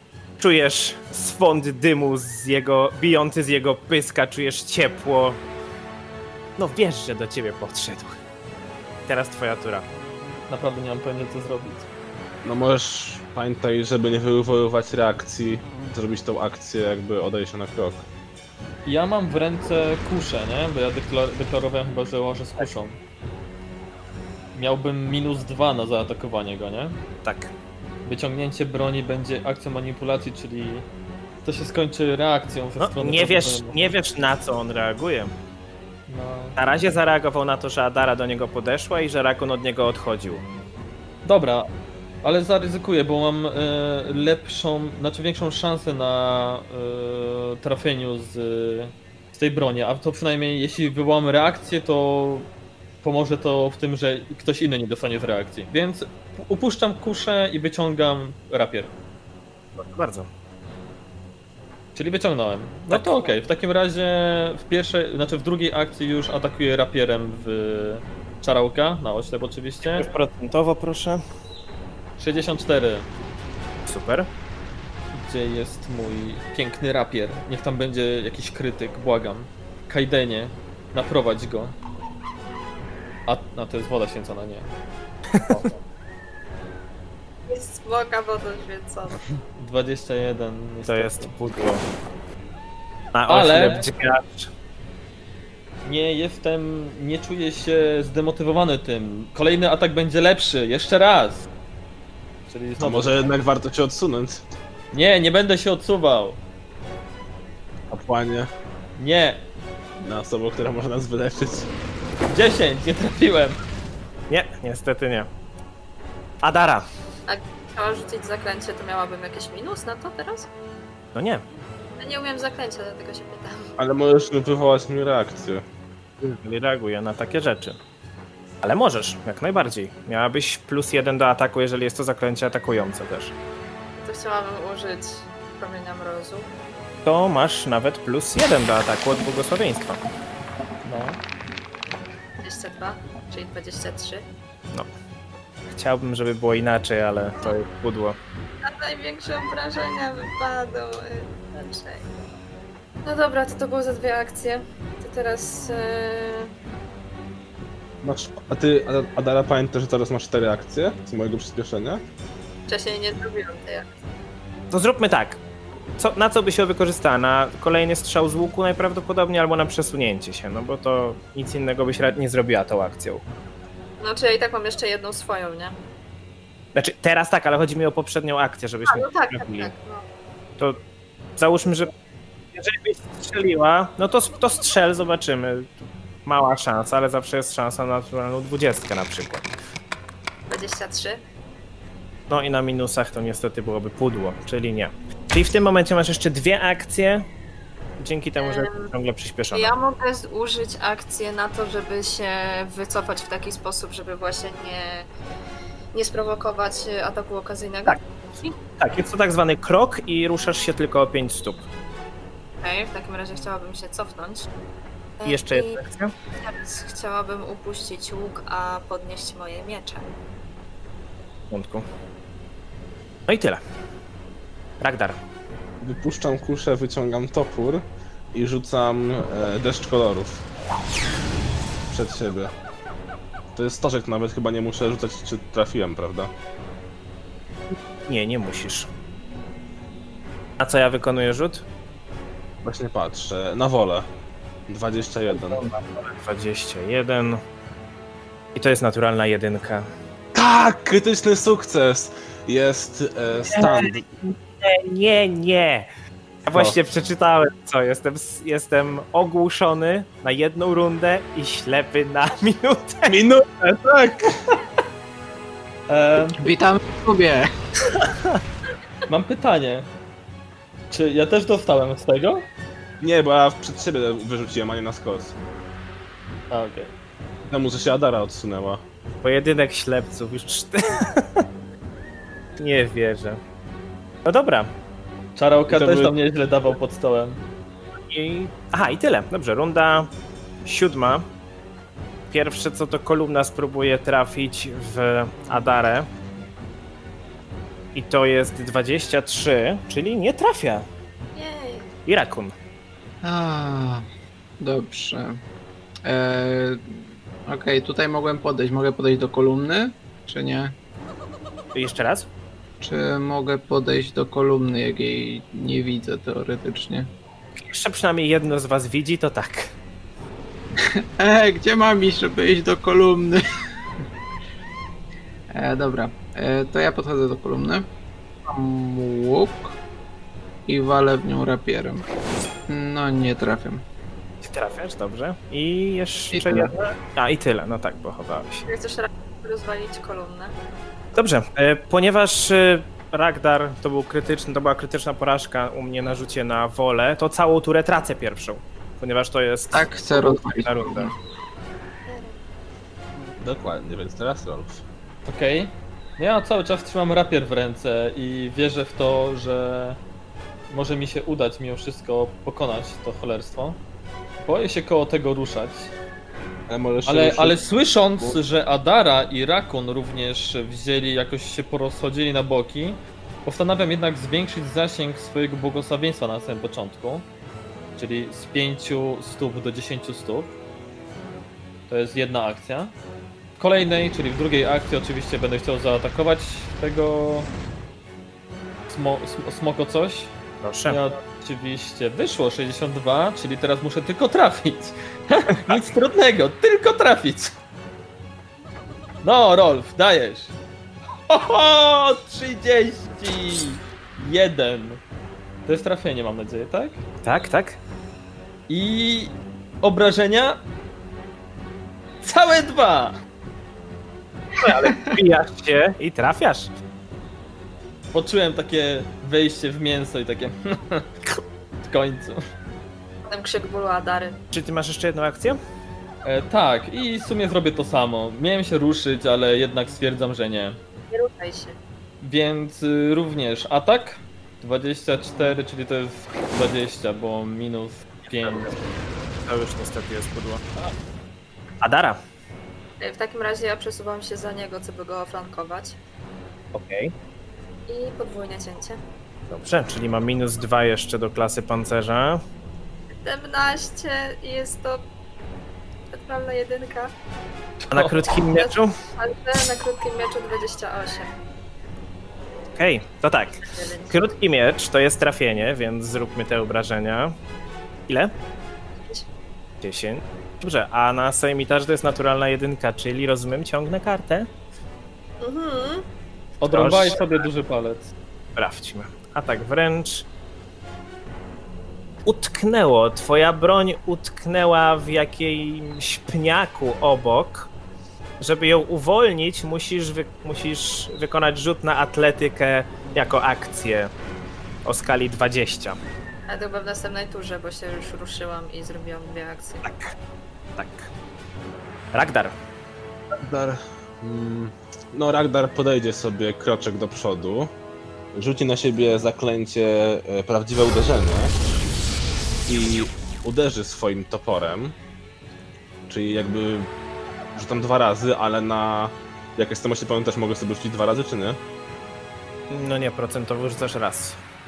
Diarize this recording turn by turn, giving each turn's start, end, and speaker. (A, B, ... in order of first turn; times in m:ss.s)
0:00.4-0:05.4 A
0:06.6-0:08.2 A
0:09.1-0:09.8 A
0:10.5-0:11.9 B
0:12.4-0:18.0 C
0:18.8-0:23.0 B
0:24.5-0:27.0 B
0:27.2-0:27.5 A
0:28.0-0:30.8 B
0:31.4-0:33.9 B
0:32.8-0:35.3 A
0:36.1-0:36.6 B
0:36.6-0:40.4 A
0:41.2-0:41.7 B
0:42.2-0:52.5 B
0:53.0-0:58.9 B
0:59.8-1:00.3 A
1:01.9-1:10.1 B
1:02.9-1:03.3 A
1:09.8-1:11.2 A
1:12.2-1:13.1 B
1:13.8-1:14.3 A
1:15.1-1:21.7 B
1:23.3-1:24.7 B
1:25.3-1:25.7 A
1:27.5-1:29.2 D
1:29.5-1:31.4 B
1:30.9-1:31.8 A
1:33.1-1:34.5 A
1:33.3-1:33.9 B
1:35.8-1:41.4 B
1:42.5-1:43.3 B
1:42.8-1:44.4 C
1:44.9-1:46.4 B
1:47.9-1:48.5 C
1:49.0-1:49.4 B
1:50.0-1:51.7 C
1:52.3-1:53.6 B
1:54.3-1:55.3 A
1:56.4-1:56.8 A
1:57.3-2:00.5 D
2:01.1-2:01.4 A
2:02.0-2:03.7 D
2:03.8-2:05.6 C
2:06.2-2:07.8 A
2:08.6-2:13.3 A
2:14.0-2:16.5 D
2:17.0-2:20.0 A
2:20.8-2:21.2 B
2:22.4-2:24.2 D
2:25.7-2:28.2 A
2:28.6-2:32.1 D
2:33.0-2:36.5 D
2:38.0-2:42.0 C
2:42.7-2:43.9 D
2:44.7-2:45.4 A
2:46.0-2:53.2 A
2:54.0-2:55.8 D
2:56.7-2:59.7 A
2:58.9-3:00.0 D
3:01.4-3:01.9 A
3:02.5-3:05.7 A
3:06.2-3:09.5 A
3:10.5-3:11.2 D
3:12.3-3:17.2 A
3:18.0-3:19.7 A
3:18.4-3:18.9 D
3:19.5-3:25.1 D
3:25.9-3:28.5 D
3:28.8-3:31.6 A
3:32.6-3:34.5 D
3:35.2-3:35.8 D
3:35.2-3:36.1 A
3:36.4-3:40.1 D
3:41.5-3:41.8 A
3:43.3-3:43.6 A
3:44.8-3:45.2 A
3:45.8-3:50.4 C
3:51.9-3:52.5 C
3:53.5-3:56.3 C
3:58.0-3:58.9 A
4:00.6-4:01.6 A
4:02.6-4:04.0 C
4:04.7-4:05.6 C
4:05.3-4:07.4 A
4:08.5-4:09.9 A
4:10.3-4:14.1 C
4:13.4-4:15.9 A
4:16.4-4:23.1 A
4:23.1-4:24.5 C
4:25.9-4:26.5 B
4:26.4-4:27.5 E
4:29.1-4:29.9 B
4:30.9-4:32.4 B
4:33.0-4:35.3 C
4:36.5-4:36.9 B
4:37.4-4:38.8 C
4:39.2-4:41.4 A
4:42.6-4:43.4 A
4:44.2-4:44.7 A
4:45.4-4:47.4 B
4:45.7-4:46.1 C
4:48.1-4:50.1 A
4:50.6-4:51.3 A
4:52.3-4:56.1 A
4:57.9-5:00.9 A
5:01.4-5:01.9 D
5:02.0-5:02.5 A
5:03.2-5:04.0 E
5:04.6-5:05.4 E
5:06.0-5:06.8 E
5:07.4-5:10.7 E
5:11.7-5:12.3 A
5:12.8-5:17.1 E
5:17.6-5:19.7 A
5:20.8-5:23.4 E
5:25.5-5:27.8 E
5:28.5-5:29.8 E
5:30.7-5:32.0 E
5:32.7-5:33.8 E
5:34.4-5:38.6 A
5:36.3-5:36.7 E
5:38.6-5:40.5 D
5:41.1-5:51.1 A
5:49.7-5:51.1 E
5:52.1-5:52.4 D
5:53.4-5:54.8 C
5:55.2-6:00.0 B
6:00.7-6:03.8 B
6:04.4-6:05.9 B
6:06.7-6:07.6 C
6:07.0-6:17.3 B
6:18.0-6:20.5 B
6:21.9-6:22.9 B
6:23.6-6:27.5 B
6:28.9-6:30.3 B
6:30.6-6:31.0 A
6:30.9-6:37.6 B
6:39.2-6:40.5 B
6:41.3-6:45.0 B
6:45.6-6:47.0 B
6:47.2-6:47.8 A
6:48.7-6:50.6 B
6:52.2-6:53.2 B
6:54.6-6:56.7 A
6:58.1-7:01.1 B
7:01.8-7:02.4 B
7:03.2-7:04.4 D
7:04.5-7:05.6 A
7:06.2-7:10.8 B
7:11.1-7:11.8 D
7:12.2-7:18.7 B
7:19.4-7:20.6 A
7:21.8-7:22.2 A
7:23.0-7:26.0 D
7:26.7-7:27.1 A
7:27.9-7:29.0 D
7:29.5-7:32.4 A
7:33.1-7:35.0 D
7:36.1-7:37.1 D
7:37.9-7:38.1 B
7:37.9-7:38.9 A
7:38.4-7:41.3 D
7:42.8-7:47.3 A
7:43.6-7:44.2 D
7:49.8-7:54.5 A
7:55.4-7:56.0 D
7:56.6-7:58.1 B
7:56.7-7:57.4 A
7:58.6-8:00.3 A
8:02.2-8:07.7 A
8:08.4-8:14.1 A
8:14.8-8:16.0 A
8:16.5-8:19.8 D
8:19.8-8:20.1 A
8:20.8-8:21.1 A
8:22.1-8:22.5 A
8:23.3-8:27.7 C
8:28.3-8:31.5 C
8:32.7-8:34.9 C
8:36.1-8:36.9 C
8:37.5-8:41.6 C
8:42.7-8:44.4 A